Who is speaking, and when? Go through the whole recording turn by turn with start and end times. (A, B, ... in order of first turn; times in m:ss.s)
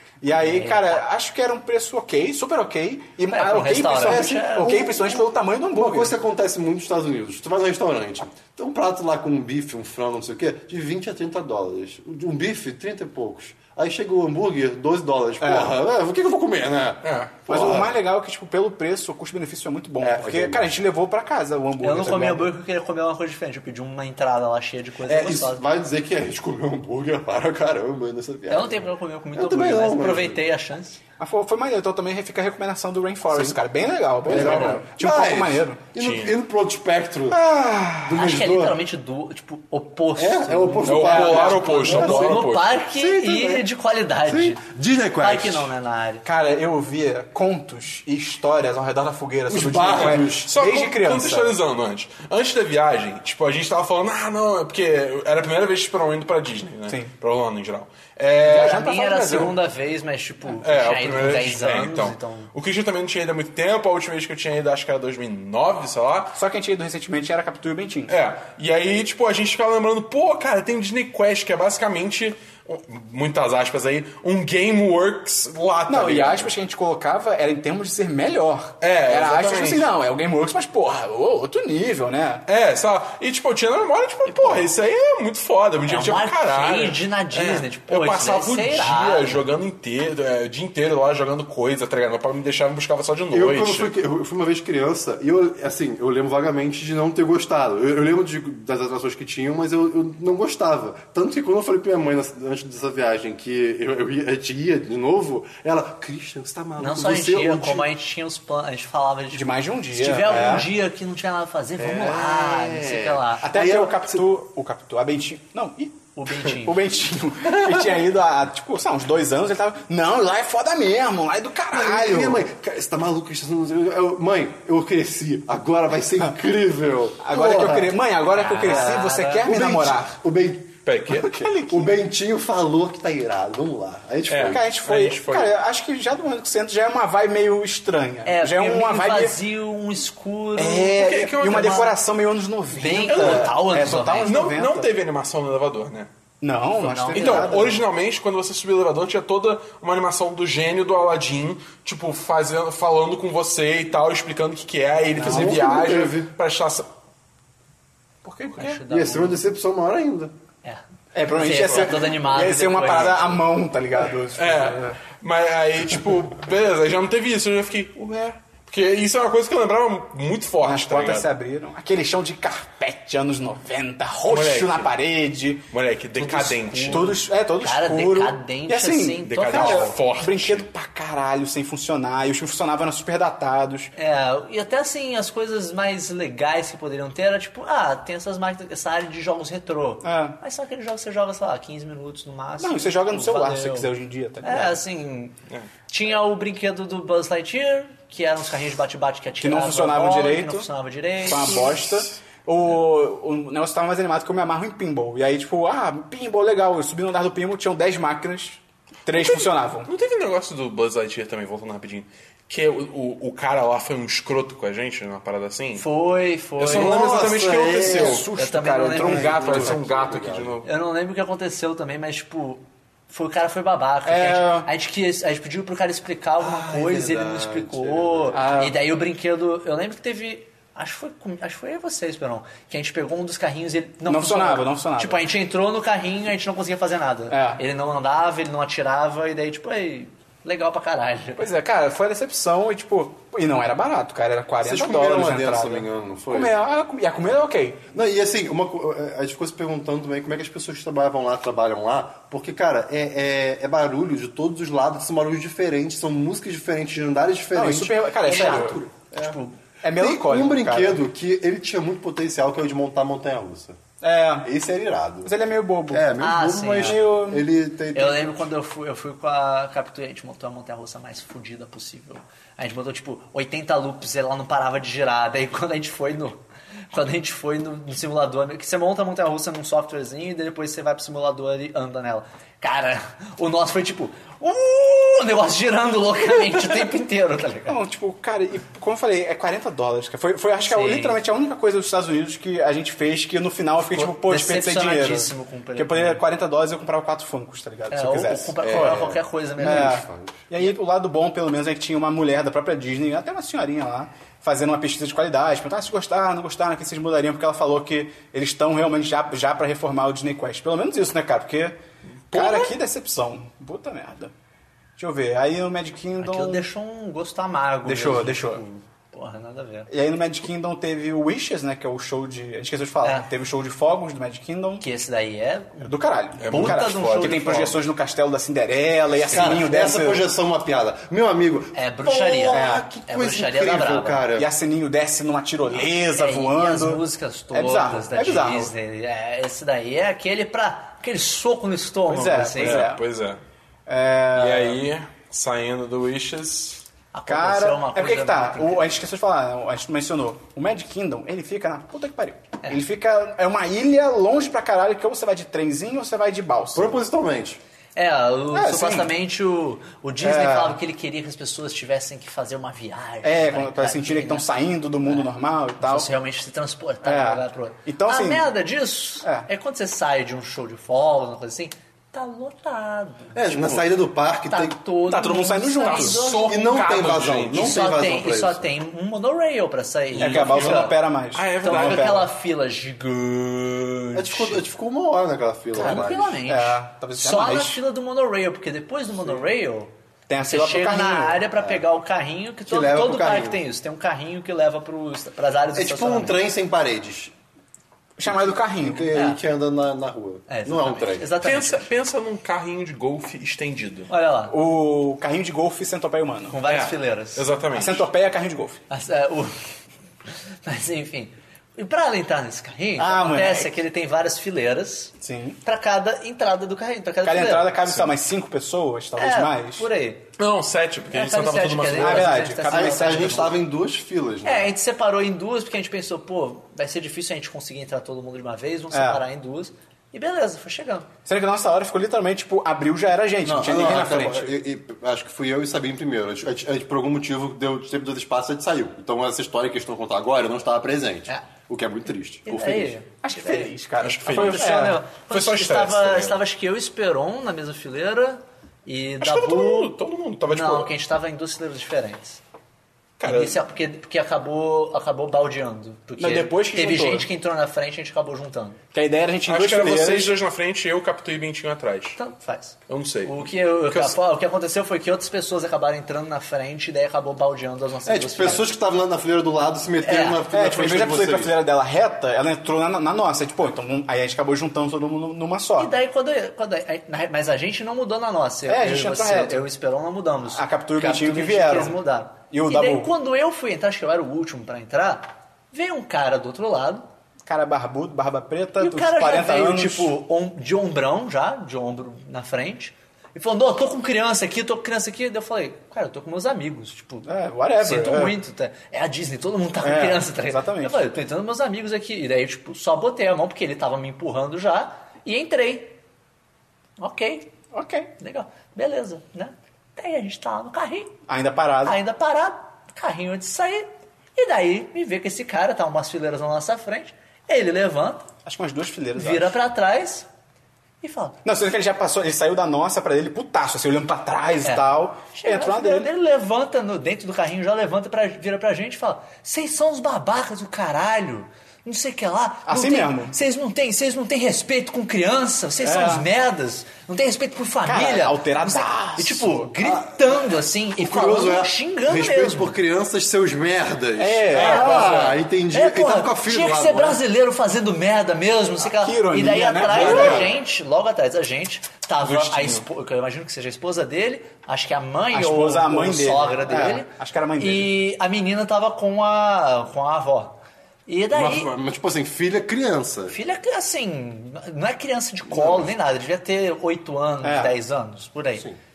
0:00.2-0:06.2 A
0:00.4-0:01.0 B
0:03.3-0:04.9 B
0:03.9-0:17.9 C
0:15.4-0:15.8 A
0:17.0-0:17.4 D
0:17.5-0:22.5 A
0:20.0-0:20.7 C
0:21.8-0:25.6 B
0:25.1-0:30.4 C
0:28.5-0:31.0 B
0:31.2-0:35.8 A
0:34.2-0:38.8 C
0:34.4-0:34.7 B
0:34.4-0:34.7 D
0:36.0-0:36.4 D
0:37.3-0:38.2 A
0:38.1-0:44.6 B
0:40.2-0:43.7 C
0:40.8-0:42.8 D
0:41.1-0:41.6 A
0:44.2-0:45.7 C
0:45.2-0:46.2 B
0:46.2-0:51.6 A
0:49.5-0:50.5 C
0:49.9-0:59.5 D
0:56.9-0:57.1 A
0:58.4-1:02.5 B
0:58.4-0:59.6 A
1:00.6-1:06.4 D
1:06.3-1:08.2 A
1:08.1-1:16.5 D
1:15.9-1:22.4 A
1:18.8-1:19.9 D
1:22.5-1:33.9 D
1:24.3-1:24.7 B
1:25.8-1:29.4 B
1:33.3-1:47.9 C
1:46.8-1:53.5 B
1:49.3-1:50.7 A
1:50.3-1:50.6 C
1:51.8-1:54.3 C
1:53.4-2:02.4 A
1:56.2-1:56.8 B
2:01.7-2:08.0 C
2:07.2-2:10.2 A
2:08.3-2:09.5 B
2:08.6-2:14.6 C
2:10.8-2:11.4 D
2:11.1-2:12.0 A
2:14.3-2:15.5 D
2:14.4-2:19.4 A
2:18.3-2:21.9 B
2:20.6-2:24.9 A
2:20.9-2:21.9 D
2:22.7-2:24.4 B
2:23.1-2:26.1 D
2:26.4-2:27.8 A
2:26.8-2:27.8 B
2:27.1-2:36.9 D
2:35.2-2:35.7 A
2:35.2-2:36.3 C
2:38.2-2:38.8 A
2:38.6-2:39.4 B
2:38.9-2:40.3 C
2:40.6-2:43.4 B
2:41.1-2:45.0 A
2:44.4-2:48.1 D
2:48.0-2:48.4 A
2:48.6-2:51.3 D
2:50.6-2:55.7 A
2:54.3-2:54.9 D
2:55.7-2:57.2 D
2:56.2-3:00.0 B
2:56.9-3:03.9 A
2:59.2-3:00.7 D
3:04.0-3:13.9 B
3:10.0-3:10.4 A
3:12.6-3:14.8 A
3:14.4-3:15.4 B
3:15.9-3:21.7 B
3:19.4-3:20.7 A
3:21.2-3:29.9 A
3:21.6-3:22.0 D
3:29.1-3:35.8 D
3:35.8-3:37.1 B
3:36.6-3:38.3 D
3:36.6-3:38.3 C
3:37.8-3:39.8 A
3:38.3-3:39.4 B
3:39.0-3:40.6 C
3:39.0-3:40.7 D
3:40.6-4:01.5 B
3:44.0-3:44.7 A
3:46.4-3:48.5 C
3:48.3-3:48.8 A
3:54.1-3:55.2 A
3:57.3-3:57.6 A
4:01.4-4:07.8 A
4:04.6-4:06.5 C
4:07.9-4:19.4 C
4:17.5-4:18.8 A
4:18.3-4:19.6 B
4:19.8-4:21.0 A
4:20.0-4:23.8 C
4:24.0-4:24.5 A
4:24.4-4:25.3 C
4:25.2-4:26.1 A
4:25.9-4:28.5 C
4:26.2-4:27.0 B
4:26.7-4:27.5 A
4:27.9-4:36.4 B
4:36.9-4:47.8 B
4:47.7-5:11.8 A
4:50.6-4:51.2 B
4:53.8-4:56.2 B
4:57.9-5:00.0 B
4:58.6-5:00.4 C
5:12.3-5:12.7 D
5:12.3-5:14.3 A
5:15.0-5:16.7 A
5:16.2-5:19.9 B
5:17.8-5:18.6 A
5:19.9-5:24.8 A
5:23.0-5:23.3 B
5:24.8-5:25.9 B
5:25.8-5:30.3 A
5:26.4-5:27.5 D
5:26.4-5:27.8 B
5:29.2-5:34.5 C
5:29.3-5:29.6 B
5:31.7-5:34.3 B
5:32.5-5:32.9 A
5:34.4-5:38.7 A
5:36.0-5:42.9 B
5:42.1-5:43.0 A
5:42.5-5:43.4 D
5:43.9-5:44.8 A
5:44.4-5:46.9 D
5:47.1-5:49.0 B
5:47.3-5:57.0 A
5:56.8-5:57.6 C
5:58.0-6:04.5 B
5:58.5-5:59.1 A
6:00.2-6:00.8 A
6:03.2-6:06.1 A
6:05.8-6:13.8 B
6:07.0-6:08.5 A
6:09.2-6:09.5 A
6:13.3-6:14.8 C
6:14.5-6:16.6 B
6:15.0-6:16.3 A
6:15.8-6:17.8 D
6:16.3-6:18.7 C
6:17.5-6:21.0 B
6:20.1-6:22.2 D
6:20.2-6:22.3 A
6:21.6-6:24.7 B
6:24.2-6:26.4 C
6:25.7-6:27.8 A
6:25.8-6:36.4 B
6:30.3-6:31.4 A
6:31.6-6:31.8 C
6:32.7-6:33.6 C
6:35.8-6:37.3 C
6:38.2-6:39.1 A
6:38.2-6:41.3 C
6:39.1-6:39.4 B
6:40.5-6:41.9 B
6:41.4-6:44.1 D
6:44.1-6:44.6 B
6:44.5-6:46.6 A
6:46.5-6:47.5 B
6:46.6-6:48.0 D
6:47.7-6:48.8 A
6:48.9-6:49.6 B
6:50.6-6:57.9 B
6:53.0-6:53.8 A
6:55.2-6:55.6 A
6:57.2-6:59.9 A
6:59.2-7:00.3 B
7:00.4-7:02.4 D
7:01.1-7:03.6 B
7:01.9-7:03.6 A
7:02.7-7:04.7 C
7:04.4-7:11.1 B
7:08.9-7:09.2 A
7:11.3-7:14.6 A
7:13.4-7:23.0 C
7:22.5-7:23.7 B
7:23.2-7:25.0 A
7:24.0-7:26.4 D
7:24.3-7:29.9 B
7:29.2-7:30.9 D
7:30.5-7:32.4 B
7:33.2-7:33.6 A
7:33.2-7:38.8 B
7:36.2-7:37.3 A
7:38.9-7:40.4 A
7:39.5-7:42.2 D
7:42.2-7:48.7 B
7:42.9-7:44.2 D
7:48.1-7:51.5 C
7:50.0-7:50.4 B
7:50.5-7:56.0 A
7:55.8-8:07.0 B
7:58.7-7:59.6 A
8:00.5-8:02.0 A
8:02.5-8:03.1 A
8:07.5-8:10.1 A
8:08.8-8:26.0 B
8:17.2-8:18.4 A
8:19.8-8:21.1 A
8:27.0-8:27.5 B
8:27.7-8:28.1 A
8:28.2-8:31.1 B
8:31.3-8:32.0 A
8:31.8-8:38.3 B
8:38.4-8:39.6 A
8:39.2-8:40.3 B
8:41.0-8:41.4 B
8:41.4-8:46.1 A
8:44.6-9:02.8 B
8:52.7-8:53.4 A
8:55.8-8:56.3 A
8:57.8-8:59.7 A
8:59.8-9:07.2 C
9:04.2-9:05.3 A
9:04.5-9:21.7 B
9:08.8-9:10.6 A
9:09.9-9:10.5 D
9:09.9-9:10.5 C
9:12.2-9:12.8 D
9:15.3-9:17.9 A
9:21.3-9:23.4 C
9:23.3-9:28.7 B
9:25.5-9:25.9 C
9:27.4-9:27.8 A